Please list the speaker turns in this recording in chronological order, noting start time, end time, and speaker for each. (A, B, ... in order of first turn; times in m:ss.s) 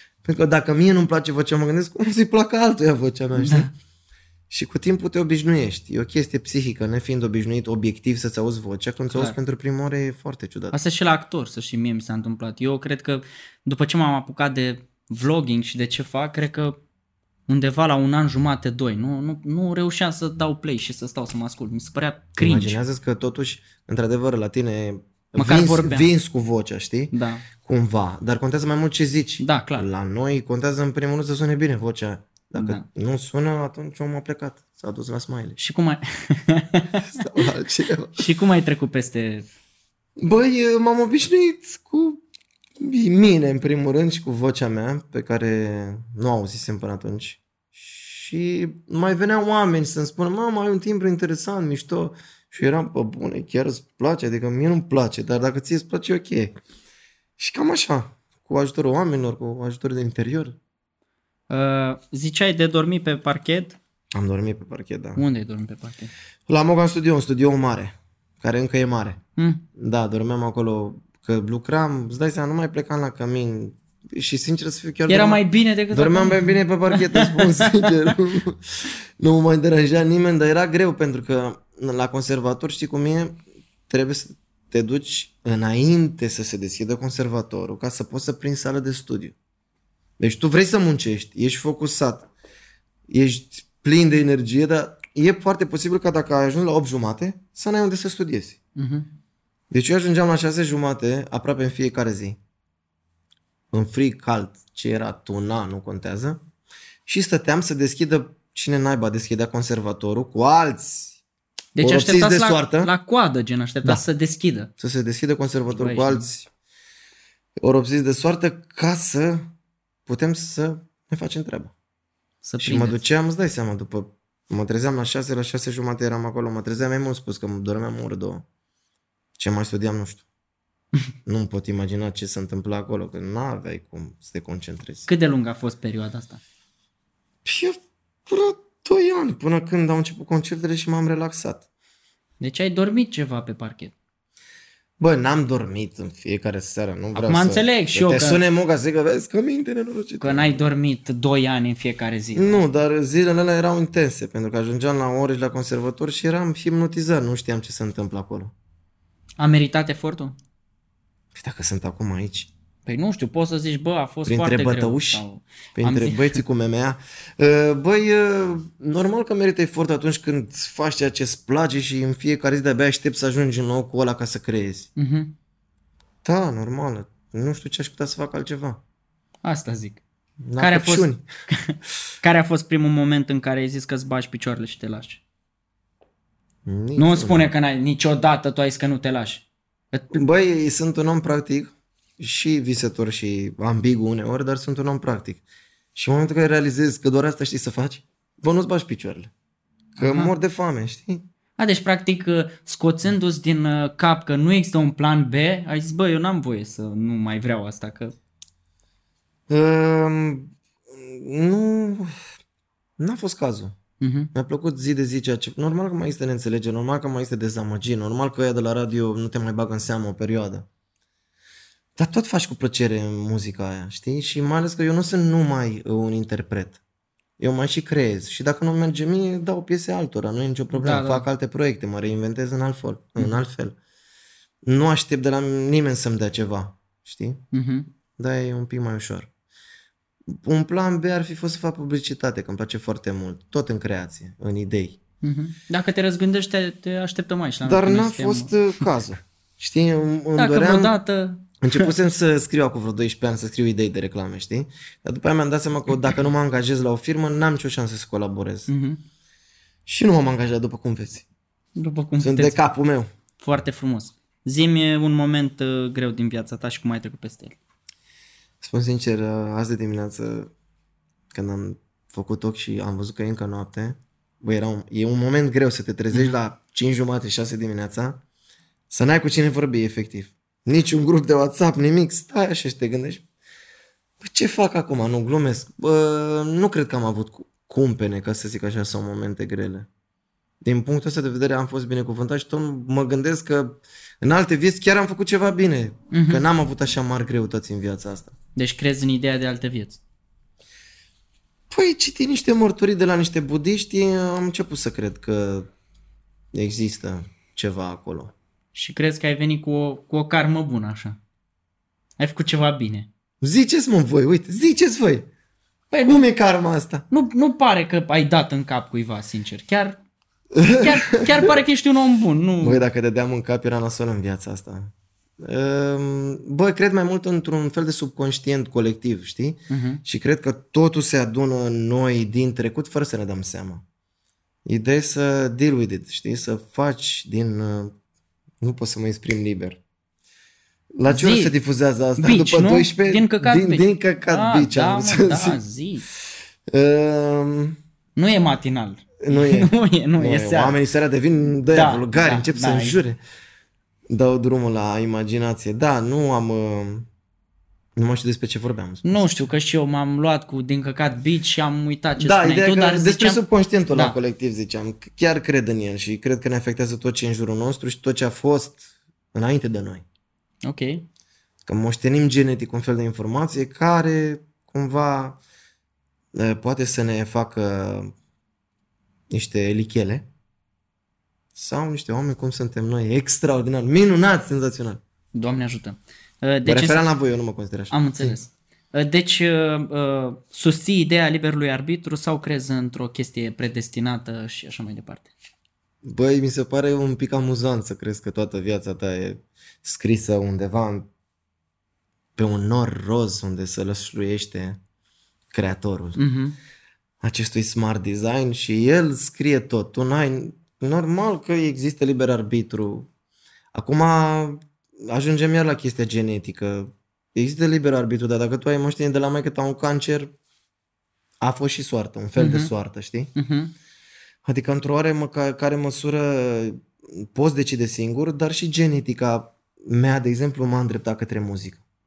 0:00.2-0:03.7 A
0:03.4-0:03.7 B
0:04.5-0:10.8 A
0:10.7-0:16.8 B
0:17.5-0:22.8 B
0:22.4-0:35.6 A
0:25.4-0:26.1 B
0:27.1-0:27.5 B
0:29.4-0:29.9 B
0:32.6-0:32.8 B
0:35.6-0:37.1 B
0:37.0-0:38.2 A
0:38.1-0:39.4 B
0:40.2-0:42.2 A
0:42.8-0:56.6 A
0:57.4-1:00.6 A
1:01.5-1:03.8 B
1:04.1-1:05.2 A
1:05.2-1:06.1 B
1:06.5-1:09.2 A
1:09.4-1:09.6 B
1:09.8-1:23.4 A
1:15.1-1:17.9 B
1:23.9-1:29.4 A
1:30.2-1:32.3 A
1:33.1-1:38.6 A
1:38.8-1:39.1 B
1:39.7-1:42.4 A
1:43.7-1:46.4 A
1:47.1-1:51.2 A
1:51.8-1:54.7 B
1:51.8-1:52.9 A
1:54.8-1:56.5 A
1:55.8-1:56.3 B
1:57.6-1:59.5 A
2:00.1-2:01.7 A
2:02.4-2:03.0 B
2:02.6-2:08.4 A
2:09.4-2:10.2 A
2:11.2-2:15.1 A
2:15.1-2:16.4 B
2:17.4-2:21.6 A
2:22.4-2:23.9 B
2:25.0-2:30.7 A
2:27.2-2:28.4 B
2:30.2-2:32.6 B
2:32.4-2:38.5 A
2:39.4-2:40.4 B
2:41.4-2:42.5 A
2:42.9-2:46.4 B
2:44.2-2:45.2 A
2:45.8-2:54.9 A
2:55.0-2:55.4 B
2:56.2-2:58.8 A
2:59.4-3:00.0 B
3:00.4-3:01.2 A
3:00.6-3:05.2 B
3:06.7-3:07.5 A
3:07.0-3:10.2 B
3:10.1-3:15.4 A
3:16.0-3:19.3 A
3:20.0-3:21.2 A
3:20.0-3:20.3 B
3:21.6-3:28.1 B
3:29.5-3:32.2 A
3:33.0-3:33.8 A
3:34.0-3:34.3 B
3:34.3-3:40.7 A
3:42.0-3:46.8 A
3:47.4-3:53.8 A
3:50.7-3:51.2 B
3:54.6-3:57.4 A
3:57.5-3:57.9 B
3:58.2-3:59.3 A
4:00.3-4:05.0 A
4:05.2-4:08.9 B
4:07.6-4:11.0 A
4:10.4-4:11.9 B
4:11.6-4:18.7 A
4:18.7-4:19.0 B
4:19.9-4:21.2 A
4:21.8-4:22.6 B
4:22.2-4:23.1 A
4:23.4-4:27.6 B
4:28.6-4:30.5 A
4:31.3-4:38.2 A
4:38.9-4:43.2 A
4:44.2-4:49.9 A
4:50.6-4:58.3 A
4:56.1-4:56.4 B
4:58.6-5:00.0 B
5:01.7-5:05.7 A
5:06.5-5:08.3 A
5:08.7-5:11.2 B
5:12.2-5:13.1 B
5:13.4-5:15.3 A
5:15.9-5:16.2 B
5:16.0-5:17.0 A
5:17.1-5:20.0 B
5:20.5-5:21.6 A
5:20.8-5:22.8 B
5:22.6-5:33.8 A
5:29.7-5:30.0 B
5:34.7-5:37.9 A
5:38.6-5:39.8 A
5:41.0-5:45.6 A
5:41.1-5:41.5 B
5:42.2-5:46.0 B
5:46.7-5:47.8 A
5:48.2-5:50.8 B
5:49.2-5:53.2 A
5:51.7-5:53.0 B
5:54.1-5:57.1 A
5:58.0-5:59.5 A
5:59.0-6:03.4 B
6:02.2-6:10.0 A
6:10.6-6:11.0 B
6:11.6-6:15.4 A
6:16.3-6:18.1 A
6:19.3-6:20.2 A
6:21.5-6:25.0 A
6:25.3-6:27.0 B
6:26.6-6:28.4 A
6:27.9-6:35.3 B
6:36.0-6:41.1 A
6:42.4-6:44.8 A
6:45.5-6:46.2 A
6:46.2-6:46.6 B
6:47.2-6:53.1 A
6:53.7-7:00.3 A
7:01.4-7:03.3 A
7:02.4-7:02.7 B
7:03.4-7:03.7 B
7:04.4-7:11.8 A